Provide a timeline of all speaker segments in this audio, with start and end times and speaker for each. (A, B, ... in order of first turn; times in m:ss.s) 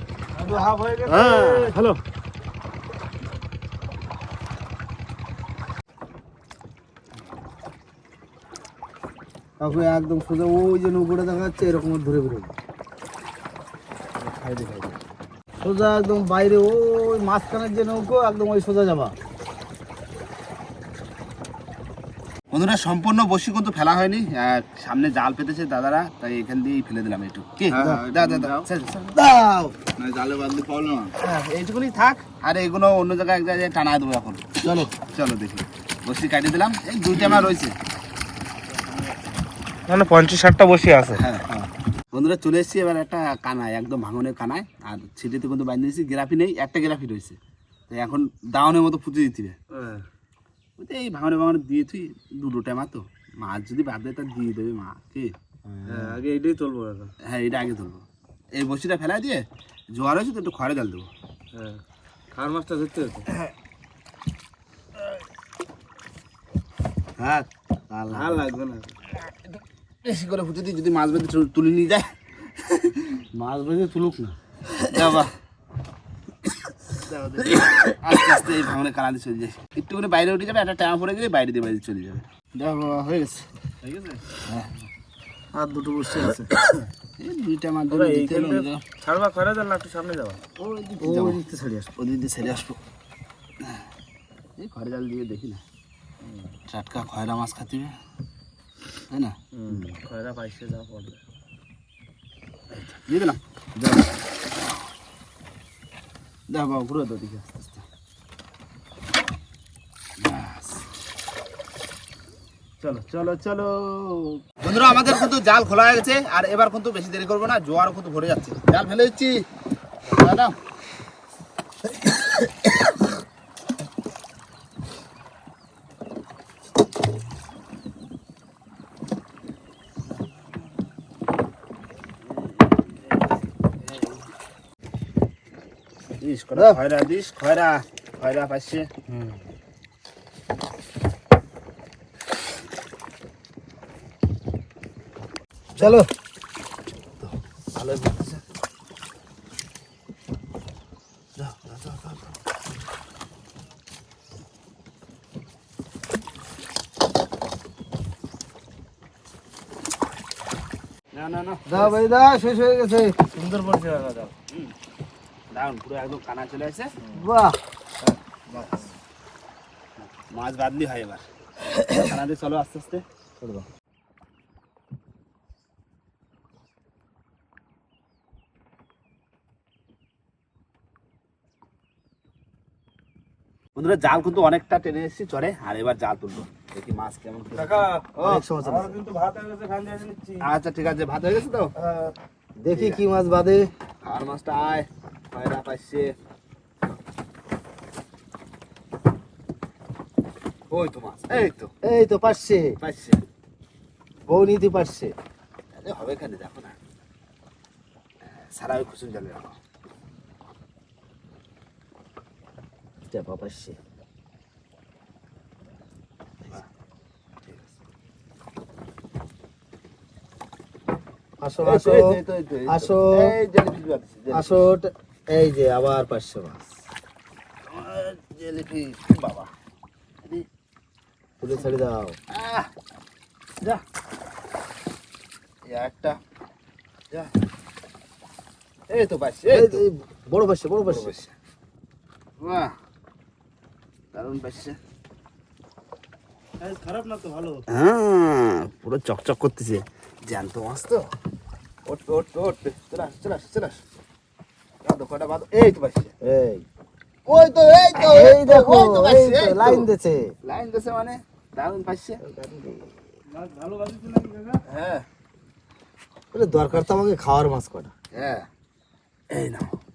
0:00.3-0:02.0 A
0:01.1-0:01.7 B
0:09.6-0:12.5 B
0:14.2-0:15.0 C
0:15.6-0:19.1 B
0:22.5-0:29.1 C
0:27.7-0:29.8 B
0:29.9-0:37.8 C
0:34.6-0:34.9 B
0:39.9-0:41.2 A
0:41.1-0:47.4 C
0:47.9-0:49.6 C
0:49.7-0:50.0 A
0:50.8-0:56.1 C
0:55.8-0:57.1 A
0:57.2-1:01.1 C
1:01.5-1:01.8 A
1:02.3-1:03.3 A
1:07.2-1:08.5 B
1:08.1-1:08.9 A
1:10.0-1:13.2 C
1:13.3-1:14.4 B
1:14.8-1:15.3 C
1:17.0-1:23.4 C
1:23.8-1:24.2 A
1:24.4-1:24.8 C
1:25.5-1:26.6 B
1:27.2-1:28.8 C
1:27.9-1:30.4 A
1:30.6-1:31.4 C
1:31.0-1:31.9 B
1:32.0-1:32.8 C
1:34.6-1:35.6 C
1:36.7-1:38.0 C
1:39.1-1:40.0 C
1:39.5-1:41.2 A
1:42.7-1:43.4 C
1:46.5-1:47.8 C
1:50.2-1:50.8 C
1:52.8-1:59.4 C
2:00.0-2:00.6 C
2:12.6-2:12.9 C
2:13.8-2:14.1 C
2:16.2-2:18.9 C
2:25.8-2:26.0 C
2:25.8-2:26.1 B
2:27.2-2:28.4 C
2:31.4-2:32.3 C
2:41.1-2:42.0 C
2:41.7-2:44.3 B
2:45.5-2:46.9 C
2:47.0-2:48.8 B
2:48.5-2:48.8 C
2:50.1-2:51.2 C
2:51.9-2:53.0 C
2:53.4-2:53.6 B
3:03.8-3:08.4 C
3:07.5-3:10.5 A
3:08.2-3:09.0 B
3:10.4-3:11.7 C
3:11.8-3:12.1 A
3:12.6-3:13.7 B
3:12.7-3:13.0 C
3:14.0-3:16.1 C
3:20.7-3:21.7 C
3:21.8-3:22.8 B
3:22.8-3:23.2 C
3:24.3-3:25.1 B
3:25.8-3:26.8 C
3:28.2-3:29.6 C
3:33.1-3:33.8 B
3:41.4-3:43.4 B
3:41.6-3:44.7 C
3:44.3-3:46.6 B
3:47.7-3:49.5 C
3:51.4-3:52.2 B
3:51.4-3:52.7 C
3:55.6-3:56.2 C
3:58.9-3:59.8 C
3:59.5-4:01.2 B
4:00.8-4:01.3 C
4:02.4-4:02.7 C
4:04.1-4:04.8 C
4:06.6-4:07.6 A
4:07.7-4:11.1 C
4:11.8-4:13.8 C
4:14.8-4:16.1 C
4:16.2-4:16.6 B
4:17.2-4:19.9 C
4:17.9-4:20.3 B
4:20.4-4:22.2 C
4:22.2-4:22.9 B
4:23.3-4:24.6 A
4:24.7-4:25.0 C
4:26.3-4:27.9 B
4:28.1-4:28.5 C
4:29.3-4:29.7 C